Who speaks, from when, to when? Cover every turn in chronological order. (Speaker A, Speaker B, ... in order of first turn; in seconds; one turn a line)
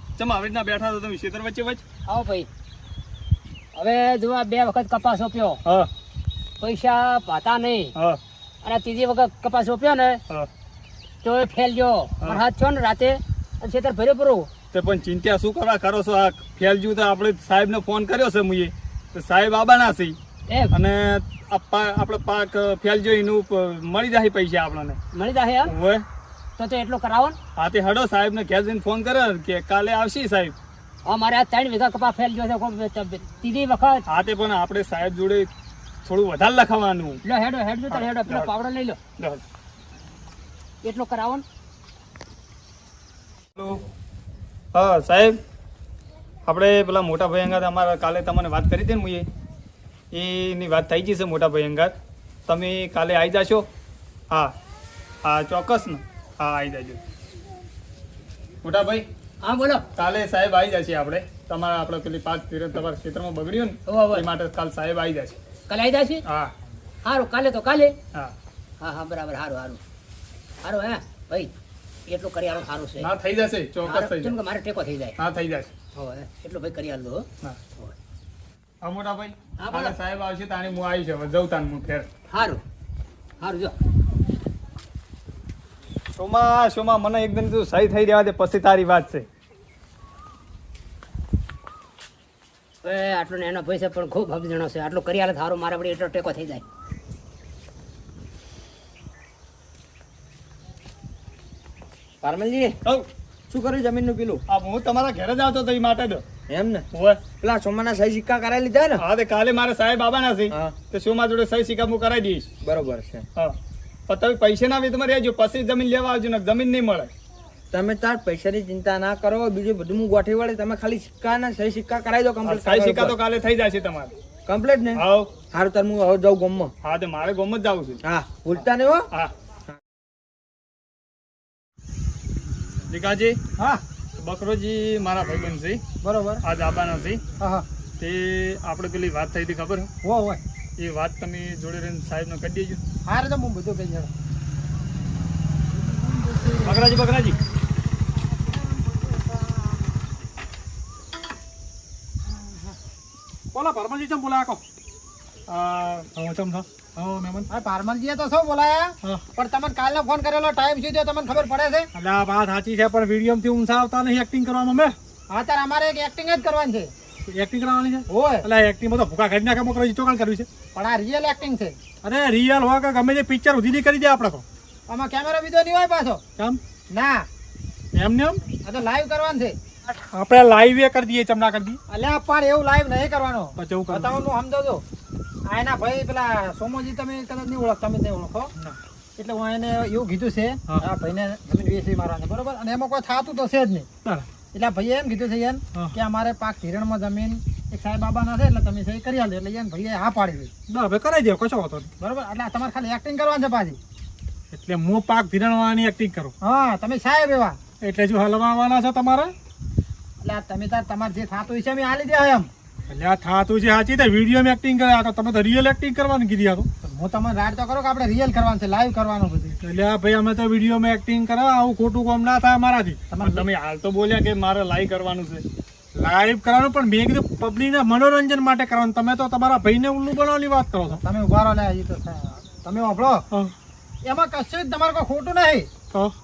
Speaker A: 0.2-1.8
Speaker B: 2.1-2.5
Speaker B: 3.7-5.6
Speaker A: 5.6-5.9
Speaker B: 6.6-7.9
Speaker A: 8.0-8.2
Speaker B: 8.6-10.2
Speaker B: 11.2-14.5
Speaker A: 14.7-20.2
Speaker A: 20.7-25.0
Speaker B: 25.1-25.7
Speaker A: 25.7-26.0
Speaker B: 26.6-27.4
Speaker A: 27.6-30.5
Speaker B: 31.0-34.0
Speaker A: 34.1-35.5
Speaker A: 36.0-37.2
Speaker B: 37.2-39.0
Speaker A: 37.9-38.5
Speaker B: 40.8-41.4
Speaker A: 43.5-43.8
Speaker A: 44.7-45.4
Speaker A: 46.5-49.2
Speaker A: 50.1-51.9
Speaker A: 52.5-53.7
Speaker A: 55.2-57.0
Speaker A: 58.6-59.1
Speaker B: 59.4-59.8
Speaker A: 59.9-65.4
Speaker B: 63.9-64.2
Speaker B: 65.7-66.2
Speaker A: 66.2-66.5
Speaker B: 67.0-67.9
Speaker B: 68.8-69.8
Speaker B: 70.6-71.5
Speaker B: 72.1-73.1
Speaker A: 73.0-74.3
Speaker B: 73.8-75.2
Speaker A: 75.2-75.7
Speaker B: 75.9-77.2
Speaker A: 78.8-82.1
Speaker B: 79.6-79.9
Speaker B: 82.3-82.6
Speaker B: 83.4-83.7
Speaker A: 86.2-89.3
Speaker B: 92.8-96.6
Speaker C: 102.2-102.7
Speaker C: 103.5-104.4
Speaker A: 104.5-106.2
Speaker C: 106.5-106.8
Speaker A: 106.9-107.2
Speaker C: 107.4-109.0
Speaker A: 109.0-112.5
Speaker C: 112.6-113.2
Speaker A: 114.1-117.1
Speaker C: 117.7-123.1
Speaker A: 122.4-124.1
Speaker C: 124.5-125.0
Speaker A: 125.0-125.3
Speaker C: 125.5-126.7
Speaker A: 126.8-128.0
Speaker C: 128.0-129.0
Speaker A: 132.9-133.4
Speaker A: 134.2-135.8
Speaker D: 136.0-136.4
Speaker A: 136.4-137.2
Speaker D: 137.4-137.6
Speaker A: 138.0-139.9
Speaker D: 140.0-140.4
Speaker A: 140.8-142.8
Speaker D: 143.1-144.1
Speaker A: 146.6-147.4
Speaker E: 153.5-154.6
Speaker A: 155.5-156.1
Speaker E: 156.1-157.5
Speaker D: 157.5-161.9
Speaker E: 161.9-164.9
Speaker D: 165.3-166.9
Speaker E: 167.2-170.5
Speaker D: 168.1-168.5
Speaker D: 170.7-171.8
Speaker E: 172.0-174.4
Speaker D: 174.9-176.2
Speaker D: 176.9-177.2
Speaker E: 177.9-178.4
Speaker D: 178.6-179.6
Speaker E: 179.9-181.8
Speaker D: 181.9-184.8
Speaker E: 183.6-184.2
Speaker D: 185.5-188.5
Speaker D: 189.2-193.9
Speaker D: 194.5-200.5
Speaker E: 200.7-201.9
Speaker D: 202.0-203.8
Speaker E: 204.5-206.3
Speaker D: 206.4-207.6
Speaker E: 207.8-209.3
Speaker D: 210.2-212.5
Speaker E: 212.9-216.7
Speaker D: 216.8-219.6
Speaker E: 219.6-223.3
Speaker D: 223.1-223.4
Speaker A: 223.2-225.4
Speaker E: 225.9-231.0
Speaker D: 230.9-233.2
Speaker D: 234.0-235.7